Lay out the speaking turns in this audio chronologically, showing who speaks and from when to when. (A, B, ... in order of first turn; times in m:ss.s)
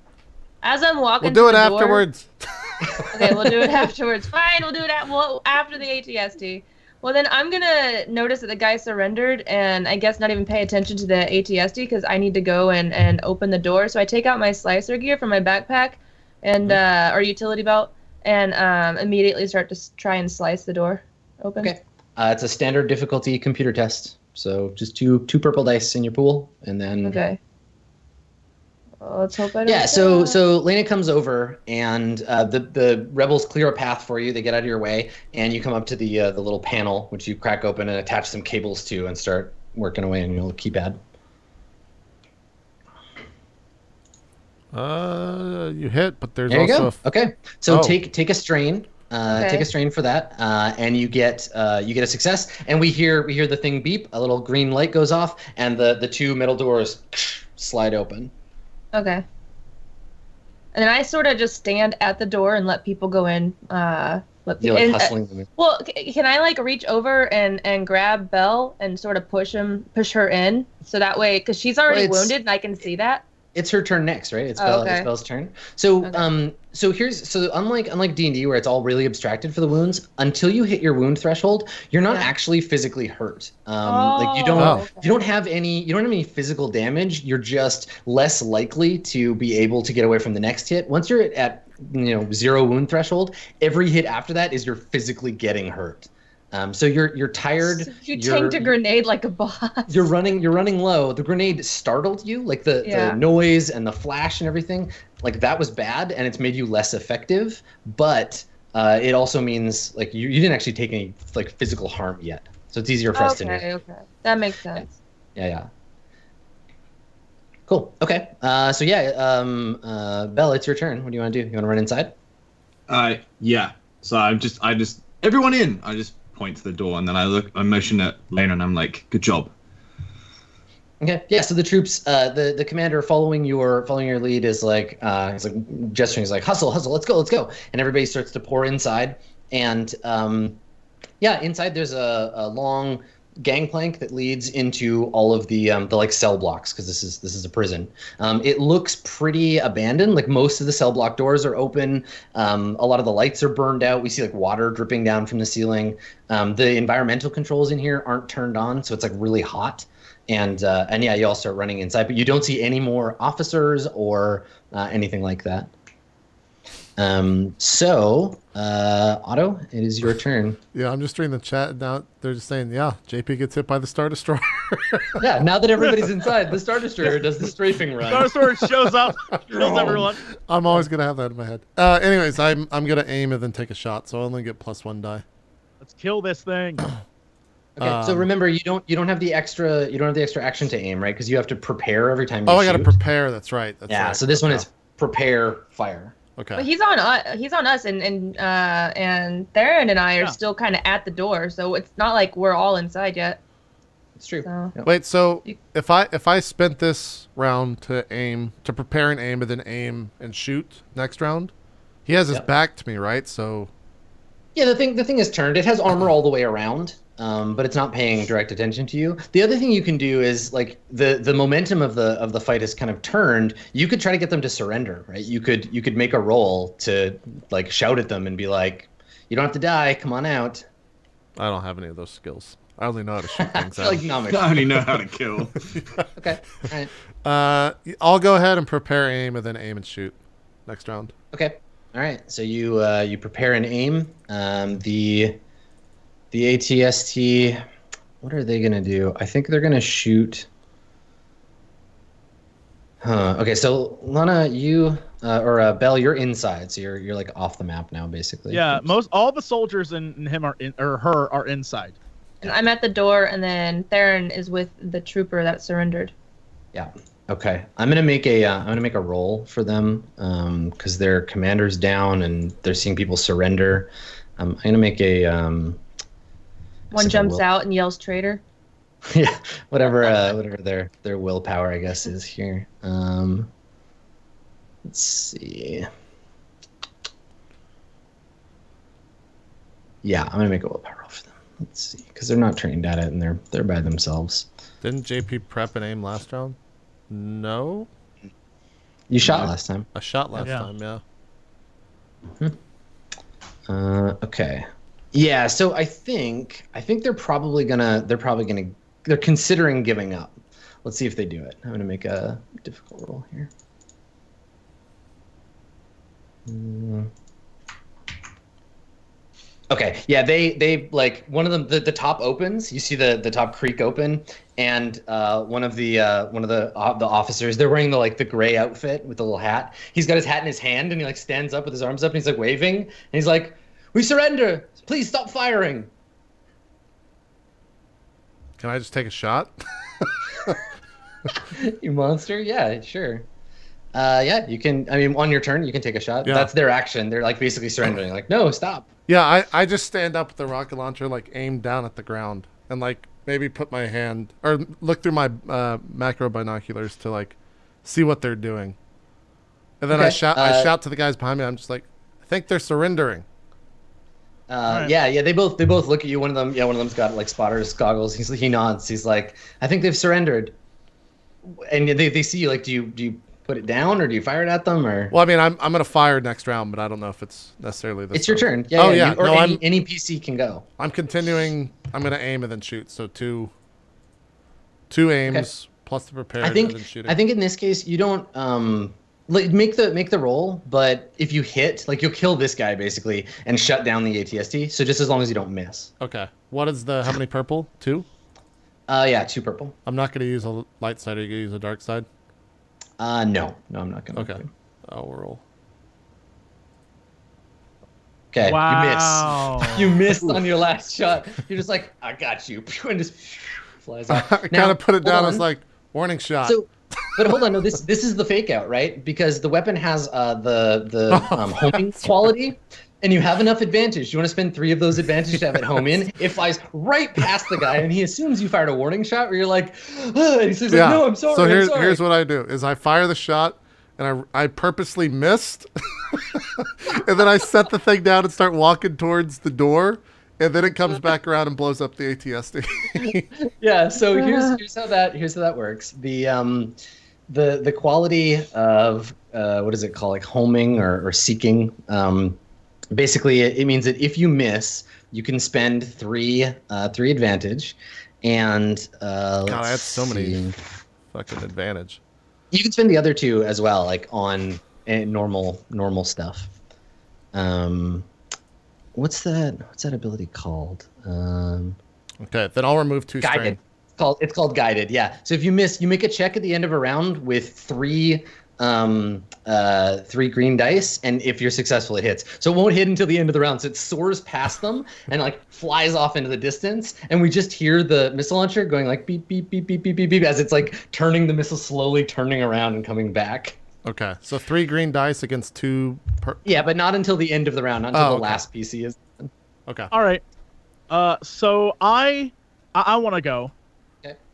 0:00.6-0:02.0 A
0:01.2-0:03.1 B
0:03.0-0:03.5 C
0:03.1-0:21.7 A
0:21.6-0:27.2 C
0:27.0-0:27.4 A
0:29.0-0:30.4 A
0:29.6-0:41.0 C
0:44.7-0:47.0 B
0:46.5-0:58.3 C
0:47.7-0:48.0 B
0:49.3-0:49.6 A
0:58.9-0:59.2 A
1:00.7-1:13.2 A
1:04.6-1:05.5 C
1:11.9-1:12.3 C
1:13.5-1:38.7 C
1:14.6-1:15.1 A
1:23.8-1:25.2 A
1:24.5-1:24.9 B
1:37.6-1:40.1 A
1:39.9-1:53.6 C
1:42.8-1:43.2 A
1:53.1-1:54.9 A
1:55.4-1:55.7 C
1:57.7-2:02.1 C
2:02.9-2:09.5 D
2:11.0-2:20.6 C
2:21.2-2:45.7 C
2:47.0-2:50.6 C
2:50.7-2:55.2 B
2:55.2-2:58.4 C
2:58.1-3:00.2 E
2:59.5-3:05.2 B
3:05.8-3:06.8 E
3:07.8-3:13.0 C
3:07.8-3:08.3 B
3:12.5-3:14.6 B
3:13.9-3:16.1 C
3:16.4-3:16.6 B
3:16.6-3:23.4 A
3:24.2-3:24.9 C
3:24.4-3:24.7 A
3:24.8-3:31.5 B
3:32.0-3:33.7 B
3:34.5-3:50.7 C
3:51.4-3:54.0 B
3:53.4-3:54.5 C
3:54.3-3:55.7 D
3:56.2-3:56.9 C
3:57.2-4:01.1 B
4:01.3-4:05.4 C
4:06.3-4:07.6 C
4:08.2-4:10.5 C
4:13.0-4:18.9 C
4:18.5-4:22.0 E
4:22.4-4:26.1 A
4:26.7-4:35.8 C
4:36.9-4:38.4 A
4:36.9-4:37.4 C
4:39.0-4:43.5 C
4:44.8-4:45.9 C
4:50.0-4:54.5 C
4:54.8-4:56.6 B
4:57.1-4:57.9 B
4:59.1-4:59.9 C
4:59.9-5:01.0 B
5:00.4-5:00.7 E
5:03.7-5:13.5 C
5:16.4-5:17.1 C
5:19.7-5:35.9 C
5:38.6-5:40.6 B
5:41.5-5:43.2 C
5:43.9-5:48.9 C
5:46.2-5:46.5 B
5:49.1-5:58.7 B
5:59.8-6:03.2 B
5:59.9-6:00.7 C
6:04.5-6:10.5 C
6:04.7-6:04.9 E
6:11.4-6:15.1 C
6:15.1-6:19.6 B
6:18.1-6:20.6 C
6:20.8-6:23.5 B
6:24.9-6:27.2 B
6:26.4-6:35.9 C
6:36.0-6:38.0 B
6:38.9-6:39.7 C
6:39.8-6:42.1 B
6:43.0-6:44.5 C
6:44.2-6:45.4 B
6:48.3-6:55.4 C
6:48.4-6:50.0 E
6:54.1-6:57.1 B
6:56.4-7:12.0 C
7:01.1-7:02.1 B
7:10.7-7:23.3 B
7:23.0-7:26.8 C
7:27.3-7:32.4 C
7:32.9-7:40.6 C
7:39.4-7:40.4 B
7:41.1-7:42.0 B
7:42.5-7:46.5 C
7:47.3-7:48.1 C
7:48.9-7:51.8 C
7:52.2-7:53.6 B
7:53.2-8:13.6 C
8:13.8-8:16.4 B
8:16.4-8:19.3 C
8:17.9-8:18.4 B
8:19.7-8:19.9 B
8:19.9-8:20.2 E
8:20.9-8:23.5 E